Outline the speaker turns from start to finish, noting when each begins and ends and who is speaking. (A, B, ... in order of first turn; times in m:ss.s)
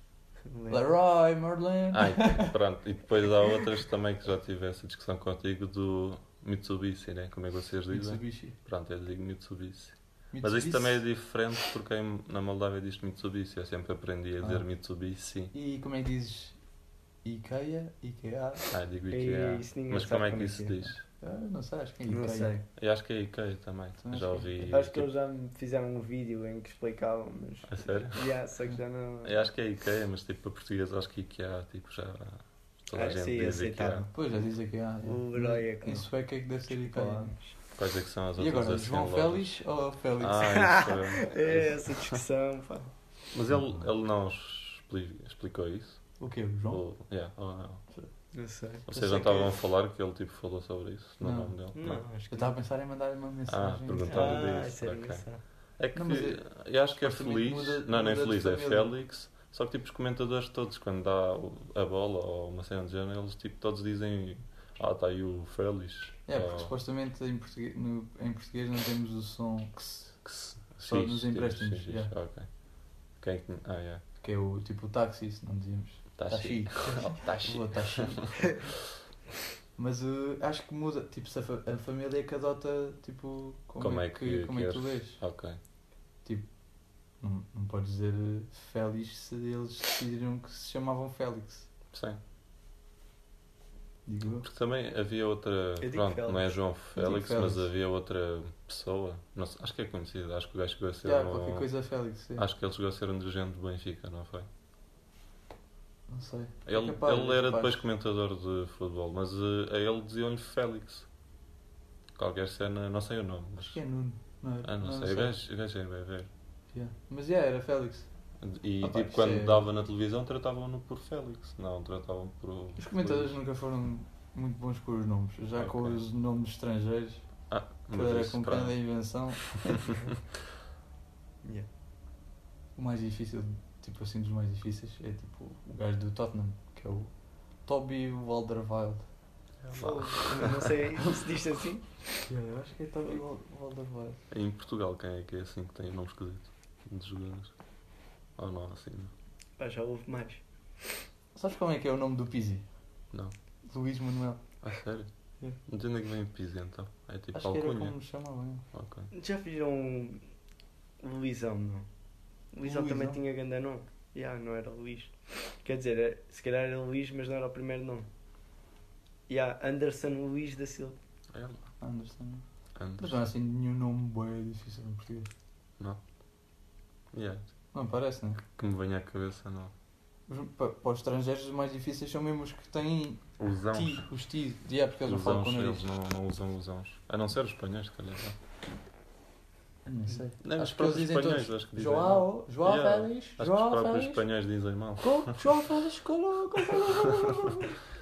0:00.4-0:00.8 A
0:00.7-0:02.6 B
0:01.9-0:15.5 C
0:07.9-0:08.6 B
0:10.3-0:11.0 B
0:14.4-0:14.7 B
0:15.5-0:16.6 B
0:17.2-0:18.6 B
0:18.7-0:21.0 C
0:19.1-0:20.9 A
0:21.2-0:22.6 B
0:22.1-0:22.6 A
0:22.8-0:25.1 C
0:24.0-0:24.8 B
0:24.7-0:29.3 A
0:27.6-0:28.3 C
0:29.2-0:34.1 C
0:32.9-0:34.5 A
0:34.1-0:37.3 B
0:35.0-0:37.6 A
0:37.7-0:39.6 C
0:38.4-0:40.6 B
0:40.2-0:42.0 C
0:40.5-0:42.9 A
0:43.3-0:47.9 C
0:43.5-0:43.9 B
0:46.2-0:46.9 B
0:48.3-0:49.3 A
0:48.9-0:52.0 C
0:48.9-0:49.4 B
0:51.2-0:51.7 B
0:51.8-0:52.5 A
0:52.3-0:54.4 B
0:53.5-1:06.7 C
0:54.1-0:55.4 A
0:55.9-0:59.0 B
1:06.2-1:12.1 B
1:10.2-1:14.0 C
1:14.2-1:18.6 B
1:16.2-1:18.2 C
1:19.8-1:25.2 B
1:23.8-1:25.6 C
1:26.2-1:26.5 B
1:27.1-1:31.7 B
1:31.9-1:32.2 C
1:34.1-1:34.4 B
1:34.4-1:41.7 C
1:35.8-1:36.6 A
1:36.9-1:37.7 B
1:41.0-1:42.4 B
1:42.3-1:44.5 C
1:46.1-1:47.8 B
1:46.6-1:51.1 C
1:52.2-1:53.8 C
1:53.6-1:55.4 B
1:54.6-1:56.3 C
1:56.7-1:58.1 B
1:58.4-2:03.3 C
1:58.8-1:59.6 B
2:02.8-2:09.9 B
2:05.6-2:06.0 C
2:07.5-2:09.4 C
2:12.8-2:19.1 B
2:19.6-2:22.0 A
2:19.7-2:20.6 C
2:22.2-2:24.2 B
2:24.3-2:27.6 C
2:28.4-2:29.1 C
2:29.6-2:30.4 A
2:31.4-2:32.7 B
2:33.6-2:34.5 B
2:34.6-2:38.2 C
2:37.3-2:38.6 B
2:38.7-2:39.1 C
2:39.1-2:40.2 A
2:41.0-2:41.9 A
2:42.5-2:48.1 A
2:42.6-2:43.2 B
2:49.3-2:51.0 A
2:51.3-2:51.7 C
2:51.8-2:55.3 B
2:52.8-2:53.3 C
2:57.1-2:57.5 C
2:57.7-2:58.4 B
2:58.4-2:59.7 C
3:00.3-3:05.9 B
3:03.4-3:04.1 C
3:05.0-3:08.4 C
3:09.9-3:14.2 B
3:10.4-3:15.4 C
3:15.0-3:17.8 B